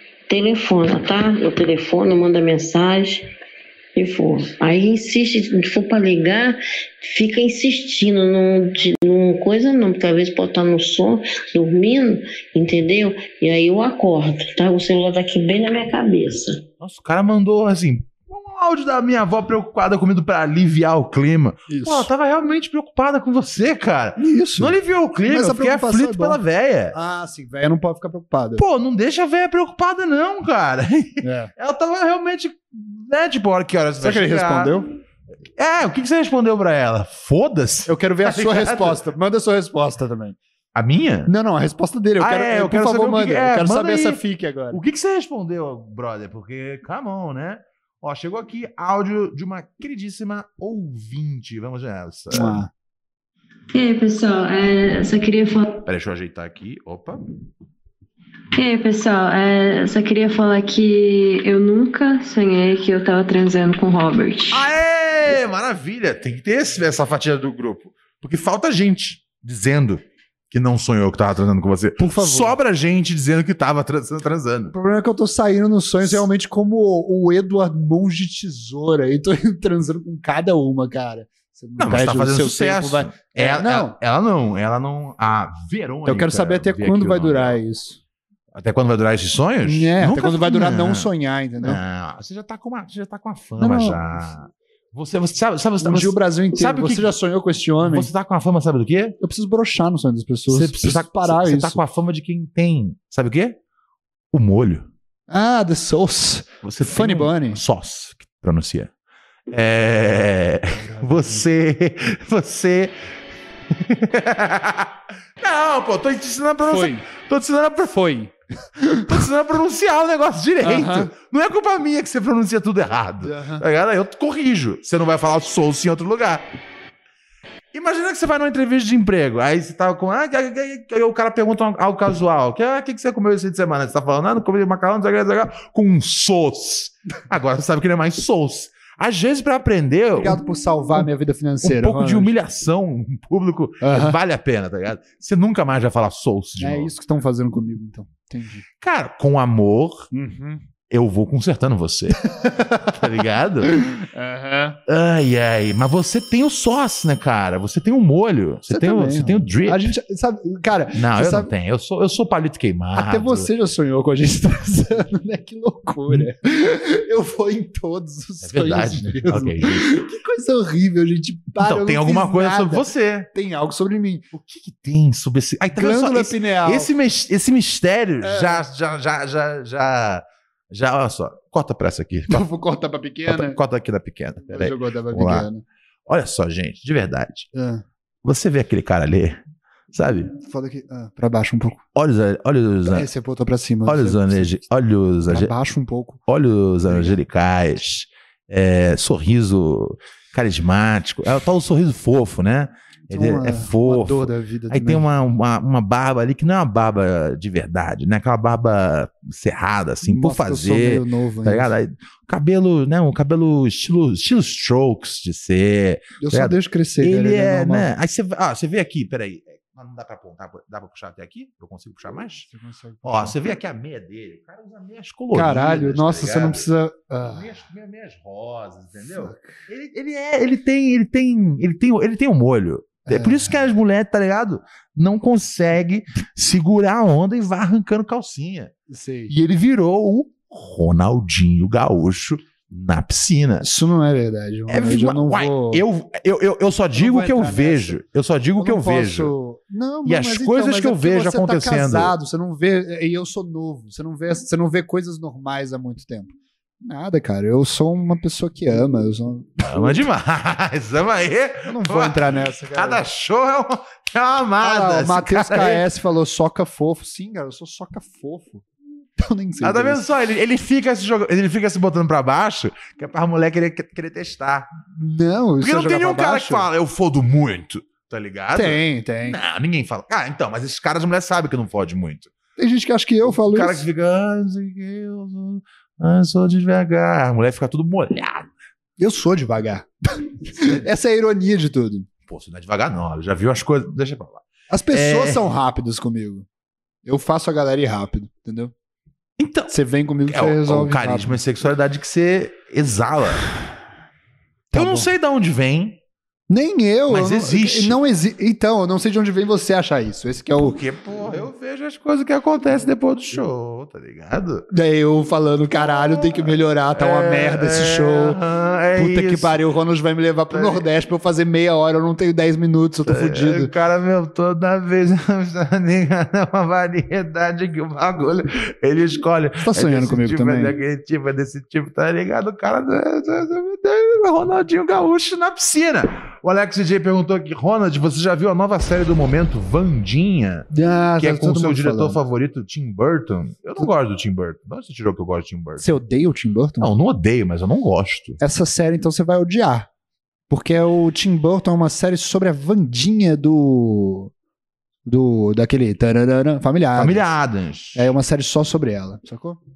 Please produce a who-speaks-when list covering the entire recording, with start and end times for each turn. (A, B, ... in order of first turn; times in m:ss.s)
0:00.3-0:03.3 A
0:04.0-0:16.6 A
0:16.8-0:27.0 B
0:21.7-0:22.1 C
0:24.2-0:26.4 C
0:26.9-0:28.6 C
0:28.6-0:34.8 B
0:31.2-0:31.5 C
0:34.0-0:34.9 C
0:35.6-0:39.0 B
0:37.9-0:40.4 C
0:40.7-0:41.3 B
0:41.3-0:44.8 C
0:42.2-0:52.6 B
0:52.3-0:52.7 C
0:53.7-0:55.8 D
0:55.9-0:57.2 B
0:58.6-1:04.7 D
1:04.5-1:14.7 B
1:12.0-1:12.6 C
1:14.7-1:24.0 C
1:21.8-1:27.6 B
1:26.0-1:28.0 C
1:28.5-1:31.1 B
1:29.6-1:31.8 C
1:31.6-1:37.2 B
1:33.6-1:34.0 C
1:35.8-1:38.1 C
1:37.8-1:39.2 B
1:39.2-1:41.8 C
1:40.5-1:43.6 B
1:44.3-1:44.9 B
1:45.3-1:47.6 C
1:46.6-1:48.9 B
1:49.5-1:52.9 B
1:50.7-1:51.4 C
1:53.7-1:58.1 B
1:56.6-1:57.0 C
1:57.9-1:59.2 C
1:59.0-2:06.4 B
2:00.6-2:01.1 C
2:03.2-2:03.6 C
2:07.7-2:20.4 B
2:20.2-2:22.3 C
2:21.6-2:26.9 B
2:23.8-2:24.2 C
2:26.6-2:28.6 C
2:28.8-2:30.1 B
2:30.1-2:30.6 C
2:30.9-2:33.8 B
2:32.2-2:33.0 C
2:33.6-2:34.8 C
2:34.9-2:39.9 B
2:38.7-2:41.5 C
2:40.9-2:43.5 B
2:43.0-2:54.3 C
2:48.4-2:49.9 B
2:51.6-2:53.3 B
2:54.3-3:02.4 B
2:55.7-2:56.9 C
2:58.2-2:58.6 C
3:02.3-3:03.6 C
3:03.3-3:05.5 B
3:04.4-3:05.6 C
3:06.1-3:07.5 B
3:07.5-3:07.8 C
3:08.2-3:09.4 B
3:09.9-3:10.3 B
3:10.4-3:11.8 C
3:12.0-3:13.1 B
3:12.9-3:14.6 C
3:13.8-3:15.5 B
3:15.3-3:16.2 C
3:16.3-3:42.5 B
3:16.9-3:17.2 C
3:23.1-3:25.1 C
3:30.0-3:31.7 C
3:36.2-3:37.9 C
3:42.4-3:43.4 C
3:43.0-3:46.6 B
3:45.3-3:47.5 C
3:47.2-3:58.7 B
3:49.1-3:49.5 C
3:53.1-3:53.5 C
3:58.9-3:59.3 C
3:59.3-4:03.7 B
4:03.6-4:05.8 C
4:04.7-4:09.3 B
4:06.9-4:08.0 C
4:08.6-4:20.0 C
4:10.0-4:12.2 B
4:19.6-4:25.8 B
4:21.6-4:23.0 C
4:24.6-4:30.0 C
4:29.6-4:34.7 B
4:34.9-4:36.7 C
4:35.6-4:42.3 B
4:38.5-4:39.4 C
4:42.6-4:43.8 C
4:43.3-4:48.5 B
4:49.0-4:52.1 C
4:52.3-4:55.4 B
4:54.7-4:56.4 C
4:57.0-4:58.7 C
4:59.4-4:59.7 B
4:59.7-5:01.4 C
5:00.3-5:03.5 B
5:04.7-5:05.1 C
5:04.7-5:06.0 B
5:06.5-5:10.8 C
5:07.1-5:08.0 B
5:10.6-5:14.7 B
5:14.7-5:18.4 C
5:17.0-5:19.6 B
5:19.0-5:23.7 C
5:20.5-5:20.8 B
5:23.1-5:40.7 B
5:29.6-5:30.7 C
5:40.7-5:42.2 C
5:41.2-5:45.9 B
5:45.8-5:46.9 C
5:46.8-5:48.4 B
5:48.4-5:49.9 C
5:50.5-5:54.3 C
5:55.1-5:57.3 C
5:57.0-5:58.1 B
5:58.0-5:59.6 C